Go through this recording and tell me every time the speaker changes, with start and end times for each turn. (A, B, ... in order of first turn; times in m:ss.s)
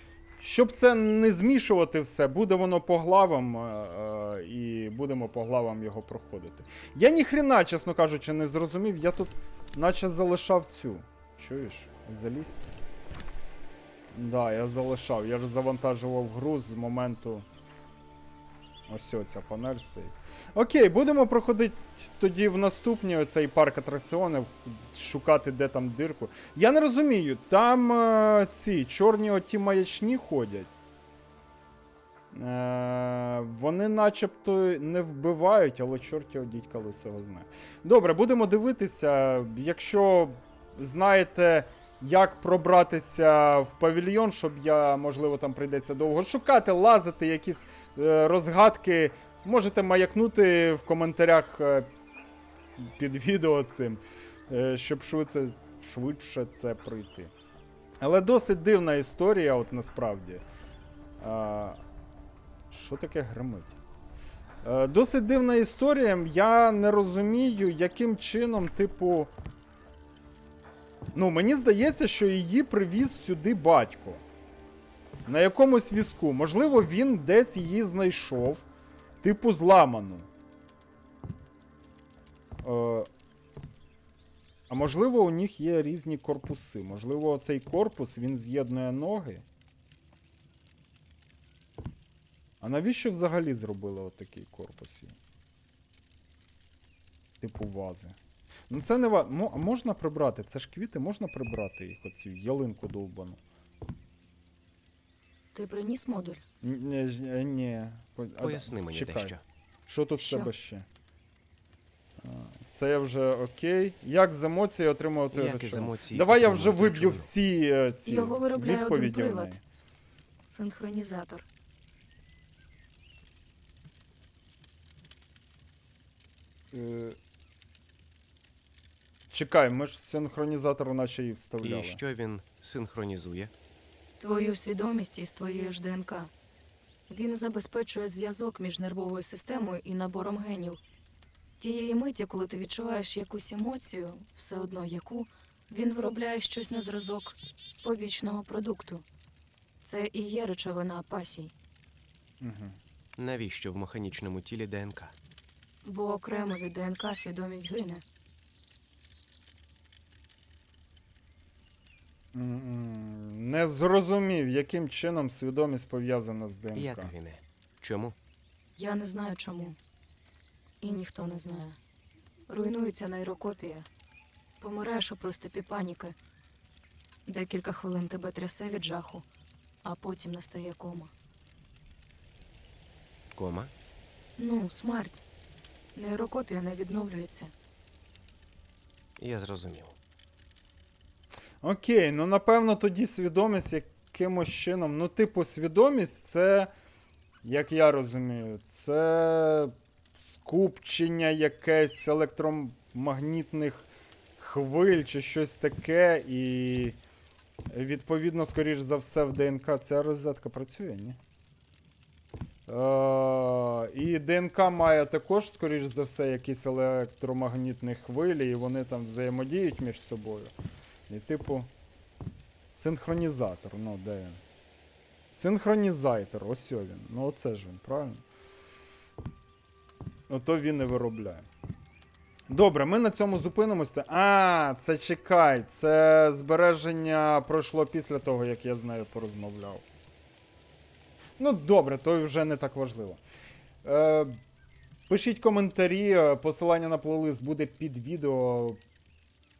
0:00.4-0:12.6 A
0:14.1-0:17.4 A
0:18.9-0:30.7 A
0:32.3-0:51.9 A
0:52.8-0:57.3 A
0:58.0-1:00.4 A
1:01.2-1:01.8 A
1:02.7-1:03.7 A
1:04.6-1:09.3 A
1:11.1-1:14.2 A
1:15.2-1:18.6 A
1:19.2-1:20.3 A
1:22.6-1:23.1 A
1:24.7-1:29.4 A
1:32.6-1:35.2 A
1:37.4-1:38.2 A
1:38.7-1:43.4 A
1:45.5-1:46.4 B
1:46.6-1:49.3 A
1:48.4-1:49.4 C
1:49.9-1:50.9 A
1:50.2-1:50.5 B
1:52.2-1:59.6 A
1:55.3-1:57.3 C
1:58.0-1:59.5 B
2:00.4-2:01.5 B
2:06.7-2:07.2 A
2:09.3-2:12.0 A
2:11.6-2:13.5 C
2:14.2-2:16.3 B
2:17.1-2:20.8 B
2:21.6-2:29.0 B
2:29.8-2:31.5 B
2:32.4-2:32.8 A
2:33.2-2:35.1 C
2:35.8-2:38.0 B
2:42.3-2:47.1 A
2:46.7-2:48.2 C
2:48.8-2:49.8 B
2:50.8-2:51.8 B
2:52.5-2:53.9 B
2:54.6-2:56.2 B
2:57.2-2:59.2 B
2:59.8-3:01.1 B
3:03.4-3:03.7 C
3:04.4-3:05.2 B
3:05.9-3:07.5 B
3:09.2-3:10.0 C
3:11.6-3:16.7 A
3:17.4-3:27.0 A
3:27.7-3:31.2 A
3:32.7-3:40.5 A
3:41.1-3:41.7 A
3:42.7-3:44.4 A
3:45.3-3:48.2 A
3:50.3-3:51.5 A
3:52.5-3:59.8 A
4:01.4-4:03.2 A
4:03.8-4:04.4 A
4:05.1-4:08.8 A